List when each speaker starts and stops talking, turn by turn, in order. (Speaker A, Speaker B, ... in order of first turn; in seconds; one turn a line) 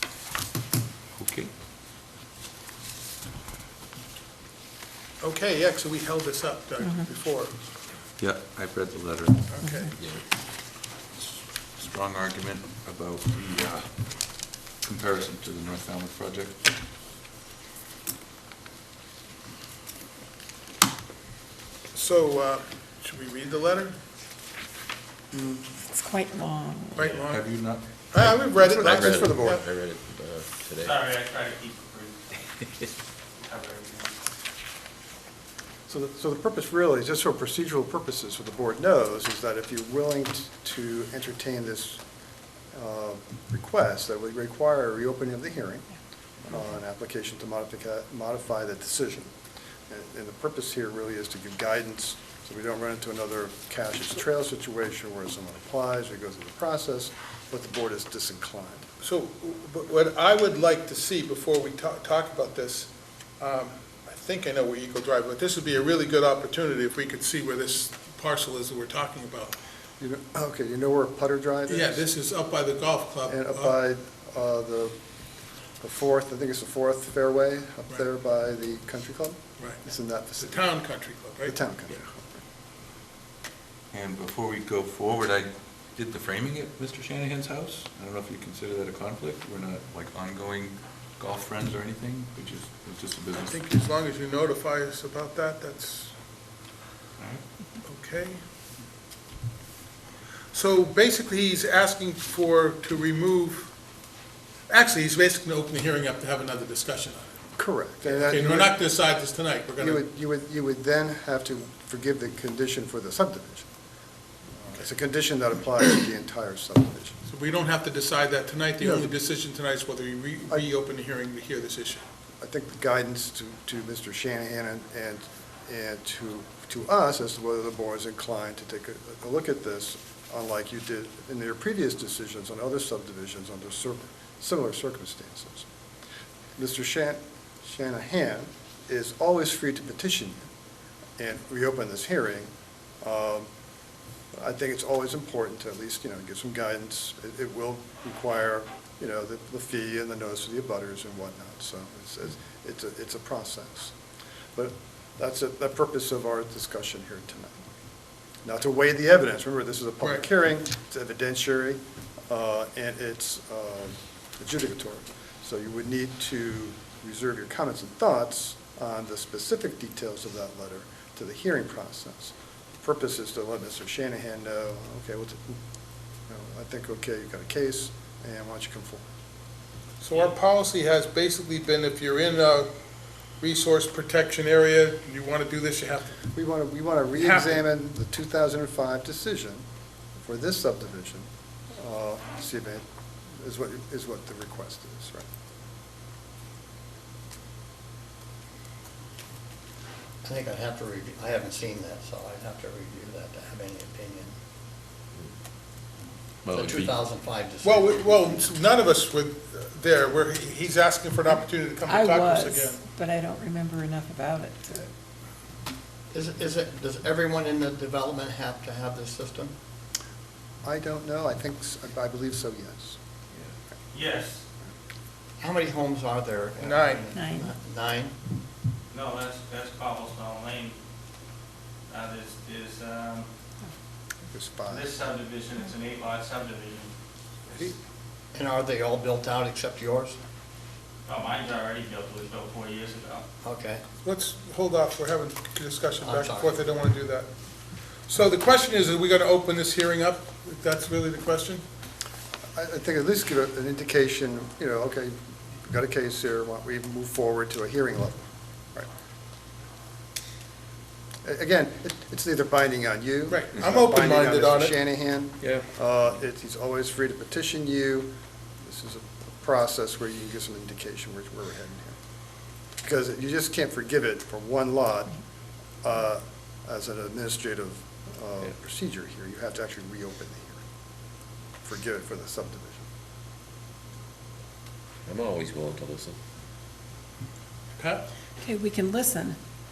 Speaker A: 1.2-1.5
Speaker B: 5.2-7.6
Speaker C: 6.8-7.1
Speaker A: 8.2-9.5
Speaker B: 9.5-9.9
Speaker C: 9.6-9.9
Speaker A: 11.1-16.7
Speaker B: 21.9-24.0
Speaker D: 25.3-25.6
Speaker C: 25.9-27.1
Speaker A: 27.0-28.1
Speaker B: 27.0-29.6
Speaker D: 28.2-29.6
Speaker E: 28.6-31.0
Speaker F: 30.8-32.4
Speaker F: 33.4-34.1
Speaker D: 35.9-42.0
Speaker D: 42.7-45.9
Speaker D: 46.5-49.3
Speaker D: 49.9-58.9
Speaker B: 59.0-69.6
Speaker D: 70.0-72.0
Speaker B: 71.7-73.8
Speaker D: 73.3-75.0
Speaker D: 75.8-80.7
Speaker B: 79.6-79.8
Speaker B: 80.3-81.6
Speaker D: 81.4-82.3
Speaker A: 83.9-93.6
Speaker B: 93.4-96.2
Speaker B: 97.8-98.4
Speaker B: 100.5-103.8
Speaker B: 104.7-107.4
Speaker D: 107.6-108.7
Speaker B: 108.0-110.0
Speaker D: 109.8-113.7
Speaker D: 114.6-117.2
Speaker B: 117.3-122.0
Speaker D: 122.4-135.7
Speaker D: 136.6-140.5
Speaker D: 141.2-142.5
Speaker D: 143.0-143.5
Speaker D: 144.3-153.9
Speaker D: 154.6-157.7
Speaker D: 158.4-175.6
Speaker B: 160.0-160.3
Speaker D: 176.3-179.1
Speaker B: 180.0-182.7
Speaker B: 183.4-186.2
Speaker D: 186.3-189.7
Speaker B: 187.2-187.7
Speaker D: 190.2-192.8
Speaker D: 193.4-195.3
Speaker G: 200.2-204.3
Speaker E: 206.4-207.0
Speaker G: 206.5-208.5
Speaker B: 207.6-212.9
Speaker C: 211.8-214.9
Speaker G: 216.1-219.5
Speaker D: 220.6-223.0
Speaker F: 223.9-224.4
Speaker G: 225.4-228.1
Speaker B: 226.6-227.0
Speaker C: 227.1-227.5
Speaker F: 228.9-230.8
Speaker F: 231.9-233.3
Speaker D: 234.2-234.9
Speaker F: 234.7-236.9
Speaker G: 238.3-240.2
Speaker F: 241.1-243.2
Speaker G: 243.4-243.9
Speaker B: 244.0-251.6
Speaker G: 246.0-246.7
Speaker D: 252.6-258.9
Speaker D: 261.2-268.1
Speaker B: 263.3-264.9
Speaker D: 268.6-272.0
Speaker D: 272.8-275.2
Speaker D: 275.8-280.6
Speaker D: 281.6-282.9
Speaker E: 285.1-286.2
Speaker B: 287.8-288.1
Speaker C: 288.4-289.4